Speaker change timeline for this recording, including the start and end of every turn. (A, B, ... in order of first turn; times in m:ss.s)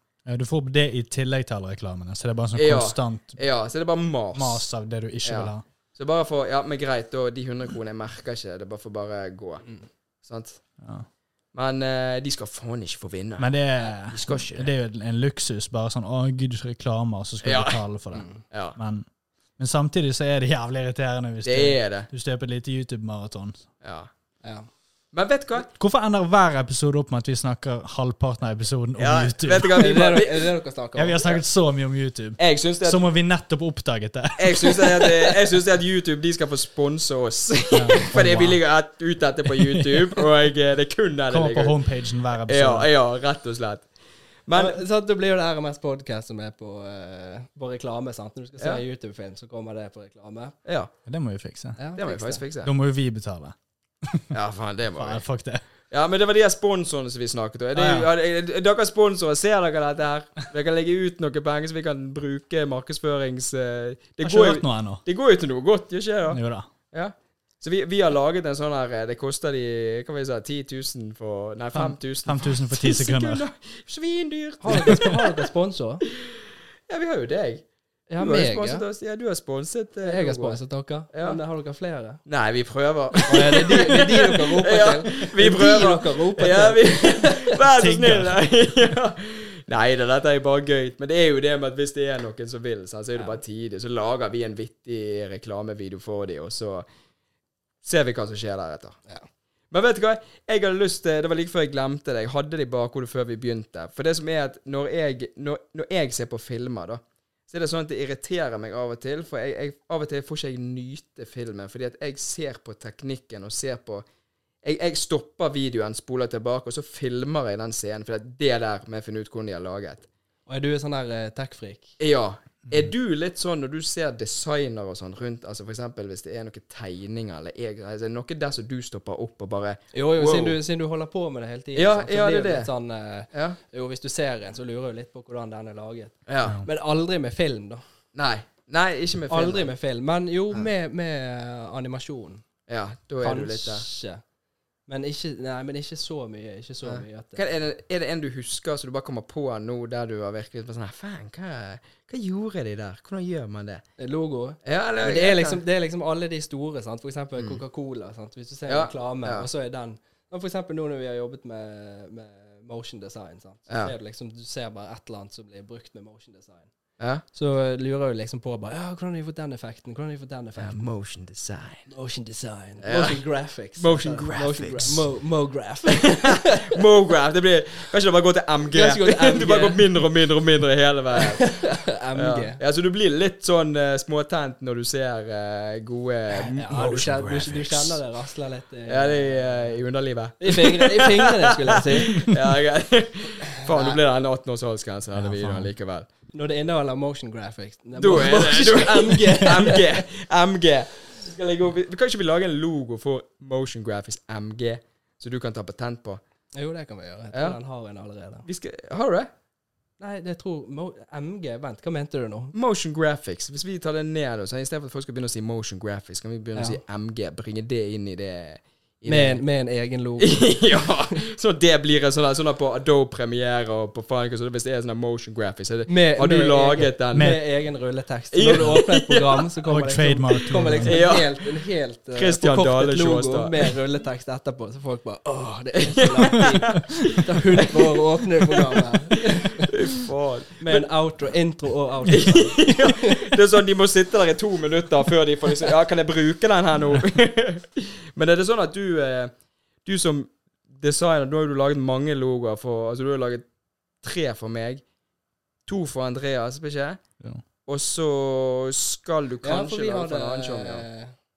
0:00.3-0:03.4 A
0:02.6-0:04.6 B
0:04.4-0:05.6 A
0:05.2-0:09.7 B
0:10.2-0:10.6 B
0:10.8-0:11.1 A
0:11.5-0:14.7 B
0:13.4-0:19.0 A
0:17.4-0:17.8 B
0:18.4-0:18.8 B
0:19.6-0:23.7 A
0:21.4-0:22.1 B
0:23.8-0:24.1 B
0:25.1-0:25.7 B
0:25.8-0:29.8 A
0:29.0-0:30.5 B
0:29.8-0:31.3 C
0:31.0-0:35.2 A
0:32.4-0:33.1 B
0:34.4-0:41.8 B
0:37.7-0:38.6 A
0:39.6-0:40.0 A
0:41.3-0:42.9 A
0:42.5-0:43.9 B
0:44.5-0:44.8 B
0:44.5-0:50.6 C
0:50.6-0:50.9 B
0:51.1-0:51.8 A
0:51.8-0:52.4 C
0:52.0-0:52.7 B
0:52.6-0:54.3 A
0:54.3-0:55.2 B
0:55.0-0:55.6 A
0:55.9-1:06.4 B
0:57.7-0:58.1 A
1:04.2-1:05.0 A
1:06.3-1:06.7 A
1:06.9-1:15.3 B
1:11.7-1:13.4 A
1:14.6-1:16.0 C
1:16.9-1:17.6 B
1:18.1-1:18.8 C
1:18.2-1:20.6 B
1:20.0-1:22.2 C
1:21.1-1:21.4 B
1:22.2-1:36.9 B
1:23.3-1:27.6 C
1:27.7-1:28.4 A
1:37.8-1:39.0 B
1:39.7-1:54.1 B
1:54.6-2:00.1 B
2:00.5-2:01.9 C
2:02.0-2:10.6 B
2:09.9-2:17.8 C
2:11.8-2:12.7 B
2:13.3-2:13.6 B
2:16.3-2:16.6 B
2:18.2-2:19.7 B
2:19.3-2:22.4 C
2:22.7-2:23.8 B
2:23.2-2:24.2 C
2:24.9-2:27.4 C
2:26.8-2:33.8 B
2:34.0-2:46.7 C
2:34.6-2:35.6 B
2:38.7-2:39.5 B
2:43.7-2:43.9 B
2:47.0-2:47.2 B
2:47.3-2:50.8 C
2:50.6-2:51.9 B
2:51.9-2:56.8 C
2:52.8-2:55.0 B
2:56.0-3:01.5 B
2:58.7-2:59.8 C
3:01.2-3:02.6 C
3:02.2-3:08.0 B
3:06.3-3:09.7 C
3:08.9-3:16.1 B
3:10.4-3:12.3 C
3:13.6-3:14.0 C
3:15.2-3:15.7 A
3:16.3-3:20.0 C
3:18.0-3:26.2 B
3:26.6-3:28.5 C
3:28.5-3:29.3 B
3:30.0-3:32.5 C
3:32.5-3:39.4 B
3:36.6-3:36.8 C
3:39.1-3:41.2 C
3:40.2-3:47.3 B
3:45.9-3:59.7 C
3:47.1-3:47.4 A
3:48.3-3:49.4 B
3:49.6-3:51.0 A
3:50.8-3:51.4 B
3:52.1-3:53.7 B
3:55.8-3:56.8 B
3:57.7-3:58.0 B
3:58.5-3:58.9 B
3:59.6-4:00.9 B
4:00.6-4:03.3 C
4:02.1-4:09.3 B
4:09.8-4:13.5 B
4:14.0-4:14.8 B
4:15.7-4:17.0 B
4:17.7-4:20.8 B
4:19.4-4:21.1 C